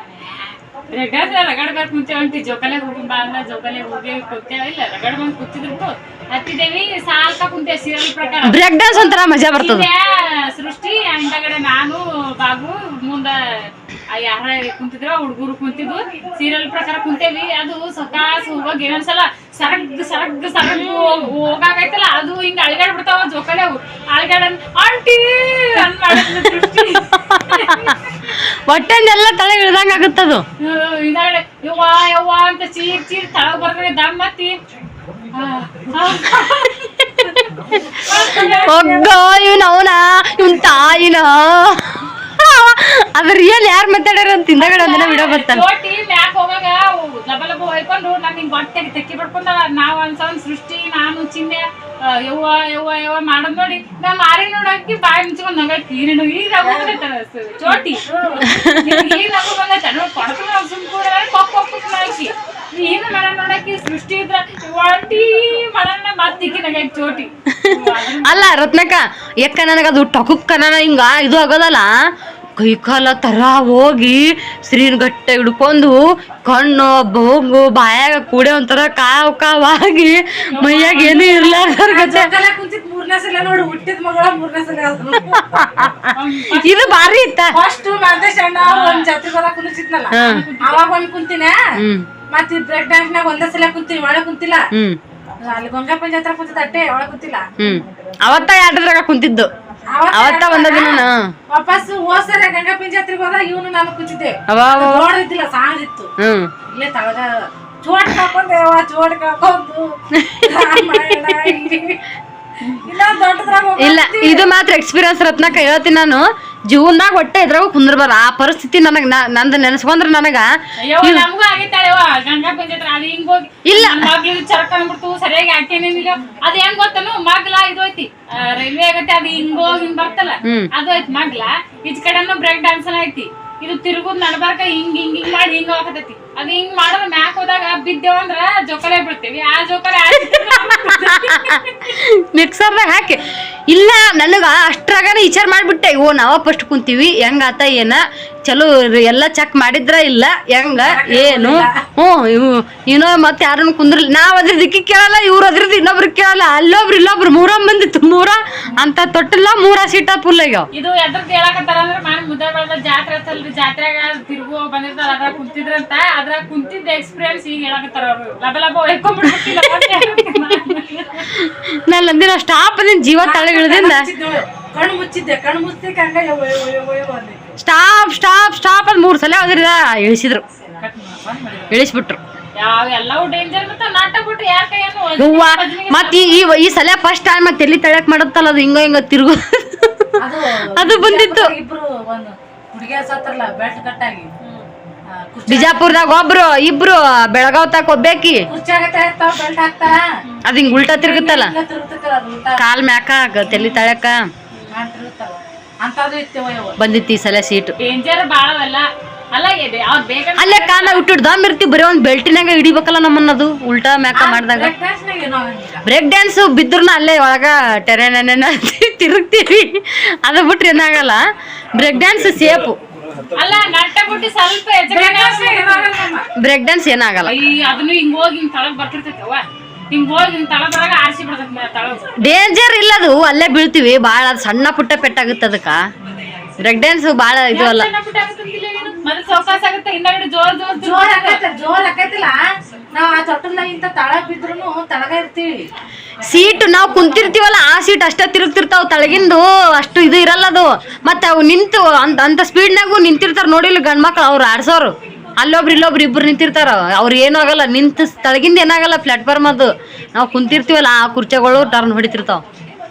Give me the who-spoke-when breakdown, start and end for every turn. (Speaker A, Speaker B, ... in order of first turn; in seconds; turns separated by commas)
Speaker A: 0.3-8.6, Speaker B: 8.4-9.9, Speaker A: 9.6-27.9, Speaker B: 26.1-30.4, Speaker A: 30.6-34.6, Speaker A: 35.3-36.7, Speaker B: 36.8-45.6, Speaker A: 38.0-39.1, Speaker A: 44.6-58.0, Speaker C: 56.6-56.9, Speaker C: 57.7-58.5, Speaker B: 58.5-59.0, Speaker A: 58.5-68.5, Speaker B: 67.5-71.9, Speaker B: 72.6-82.3, Speaker A: 80.5-81.7, Speaker C: 81.8-85.6, Speaker B: 85.6-86.0, Speaker A: 86.1-86.9, Speaker B: 86.5-87.6, Speaker C: 87.5-91.6, Speaker A: 88.6-89.1, Speaker B: 90.1-90.5, Speaker A: 90.2-90.8, Speaker B: 91.8-92.1, Speaker C: 92.3-94.7, Speaker B: 94.7-95.0, Speaker C: 95.4-97.5, Speaker B: 97.6-99.5, Speaker C: 99.9-106.1, Speaker B: 100.1-101.3, Speaker B: 104.5-105.1, Speaker B: 106.2-106.5, Speaker C: 106.7-109.9, Speaker B: 110.1-111.5, Speaker C: 110.4-112.0, Speaker C: 112.8-114.5, Speaker B: 113.8-121.2, Speaker A: 120.8-141.9, Speaker B: 123.7-124.1, Speaker B: 130.4-130.7, Speaker B: 140.2-160.7, Speaker C: 150.8-151.8, Speaker A: 160.7-171.3, Speaker B: 169.4-170.5, Speaker B: 171.3-174.1, Speaker C: 173.2-177.5, Speaker B: 177.6-180.4, Speaker C: 180.8-181.7, Speaker B: 181.7-182.2, Speaker A: 182.6-186.5, Speaker B: 185.2-190.1, Speaker C: 190.2-194.3, Speaker B: 190.7-191.5, Speaker A: 194.4-194.7, Speaker C: 195.1-196.0, Speaker B: 195.5-198.5, Speaker C: 198.5-200.1, Speaker B: 200.4-201.5, Speaker C: 200.9-202.6, Speaker B: 202.6-204.3, Speaker C: 204.7-206.8, Speaker B: 206.8-207.7, Speaker A: 207.8-211.0, Speaker B: 210.4-214.7, Speaker C: 214.1-215.8, Speaker B: 215.8-221.2, Speaker B: 221.7-222.8, Speaker A: 223.3-225.9, Speaker C: 224.9-226.3, Speaker B: 226.4-227.3, Speaker A: 227.2-232.2, Speaker B: 232.2-235.8, Speaker B: 236.6-237.9, Speaker A: 237.5-241.4, Speaker C: 240.8-242.4, Speaker C: 242.9-245.7, Speaker B: 246.2-262.4